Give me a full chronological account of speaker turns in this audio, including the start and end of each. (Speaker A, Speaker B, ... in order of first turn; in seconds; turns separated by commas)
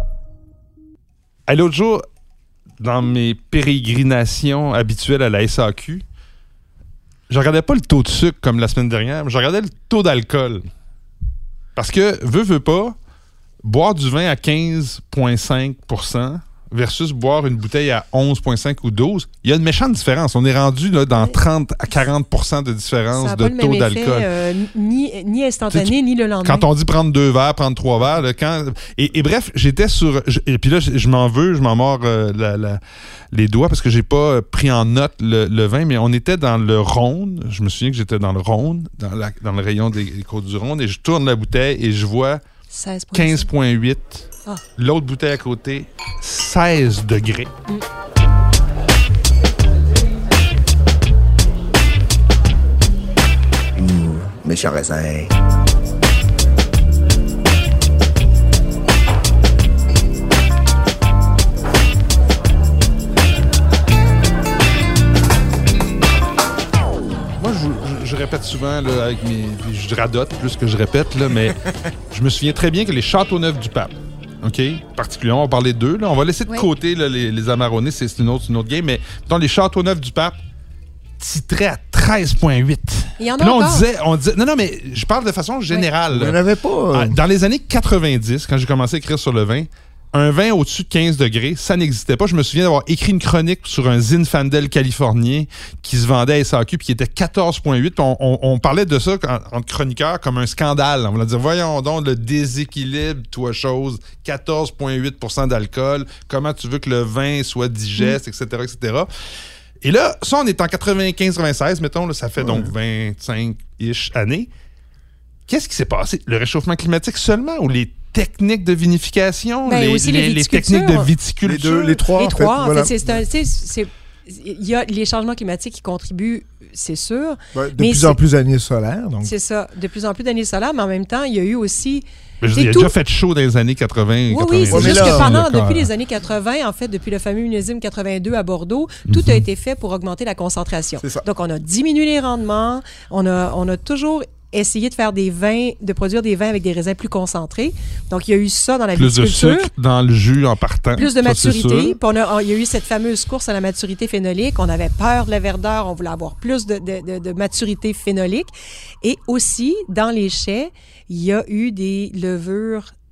Speaker A: 1.5-2.0, Speaker A: 2.8-6.0, Speaker A: 7.3-10.6, Speaker A: 11.8-12.9, Speaker A: 13.6-24.3, Speaker B: 23.1-26.6, Speaker A: 25.7-32.8, Speaker A: 33.3-42.4, Speaker B: 42.7-43.5, Speaker A: 43.1-47.5, Speaker C: 53.8-55.3, Speaker A: 67.4-71.6, Speaker A: 72.1-80.4, Speaker A: 81.2-86.4, Speaker B: 83.2-83.8, Speaker C: 86.1-87.2, Speaker A: 86.9-109.1, Speaker A: 109.8-114.5, Speaker C: 112.4-112.7, Speaker A: 115.5-122.0, Speaker B: 119.7-121.1, Speaker C: 121.4-123.2, Speaker B: 122.0-128.2, Speaker C: 127.5-129.3, Speaker B: 129.2-132.9, Speaker A: 132.4-135.9, Speaker B: 134.3-149.7, Speaker C: 134.7-135.4, Speaker A: 139.1-139.4, Speaker C: 141.0-141.2, Speaker A: 148.9-152.0, Speaker B: 150.9-162.9